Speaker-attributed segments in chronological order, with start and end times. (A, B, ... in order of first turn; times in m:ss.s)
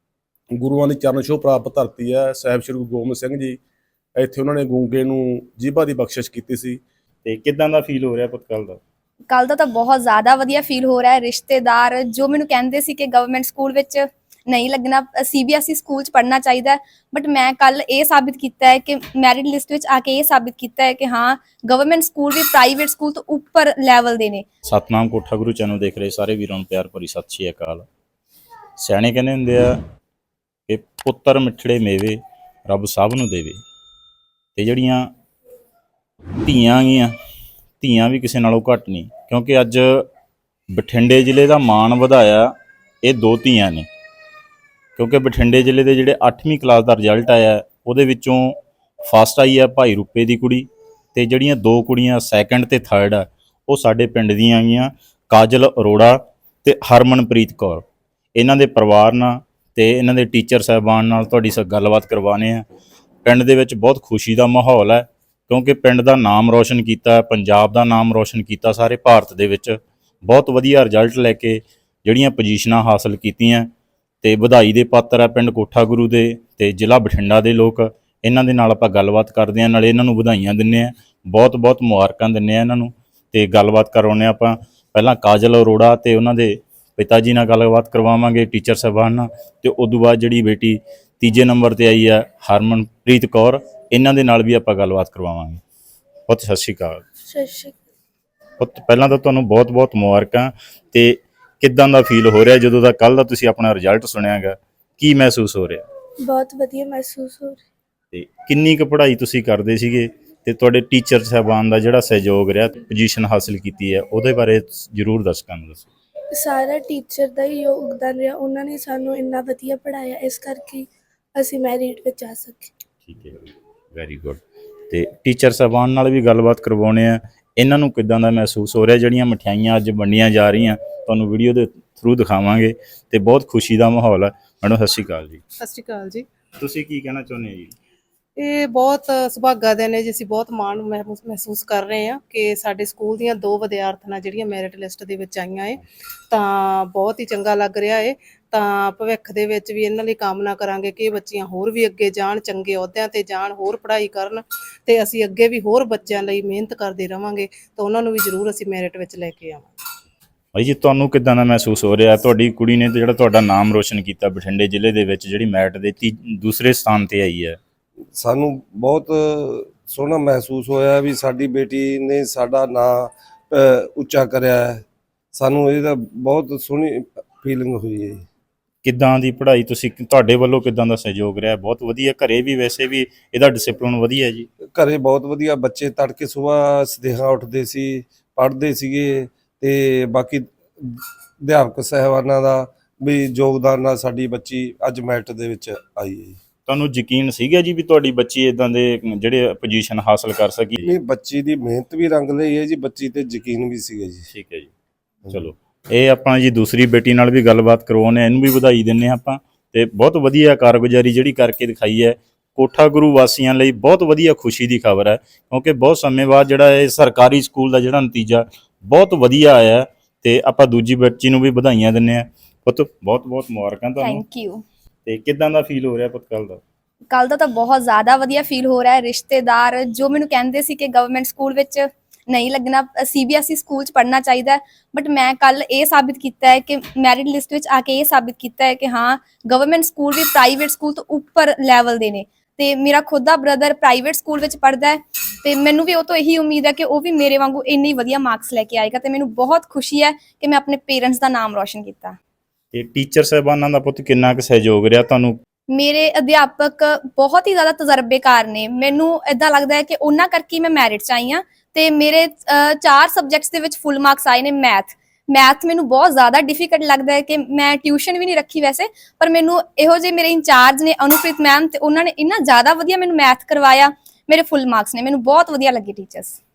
0:00.6-0:03.6 A
0:04.2-0:06.8 A
0:07.2-0:08.8 B
0:09.3-0:24.4 C
0:24.6-0:27.8 B
0:28.8-0:29.8 B
0:30.7-0:33.6 B
0:34.6-0:35.1 B
0:36.4-0:37.1 B
0:37.8-0:40.1 B
0:40.7-0:42.5 B
0:43.0-0:43.8 B
0:45.0-1:02.6 B
1:03.2-1:13.7 B
1:14.2-1:35.6 B
1:36.3-1:37.0 B
1:37.3-1:37.8 D
1:38.6-1:45.8 B
1:46.2-1:47.6 D
1:48.1-1:55.9 B
1:56.3-2:02.7 D
2:03.0-2:15.4 B
2:15.6-2:16.2 E
2:16.6-2:17.7 B
2:18.4-2:39.7 E
2:40.5-2:47.6 B
2:48.2-2:58.2 F
2:58.8-3:04.5 B
3:04.7-3:16.4 F
3:16.6-3:20.8 B
3:20.8-3:24.2 F
3:24.3-3:24.7 B
3:25.3-3:44.2 B
3:44.0-3:44.6 C
3:45.0-3:46.6 B
3:47.1-4:12.2 C
4:12.7-4:15.4 B
4:15.7-4:36.4 C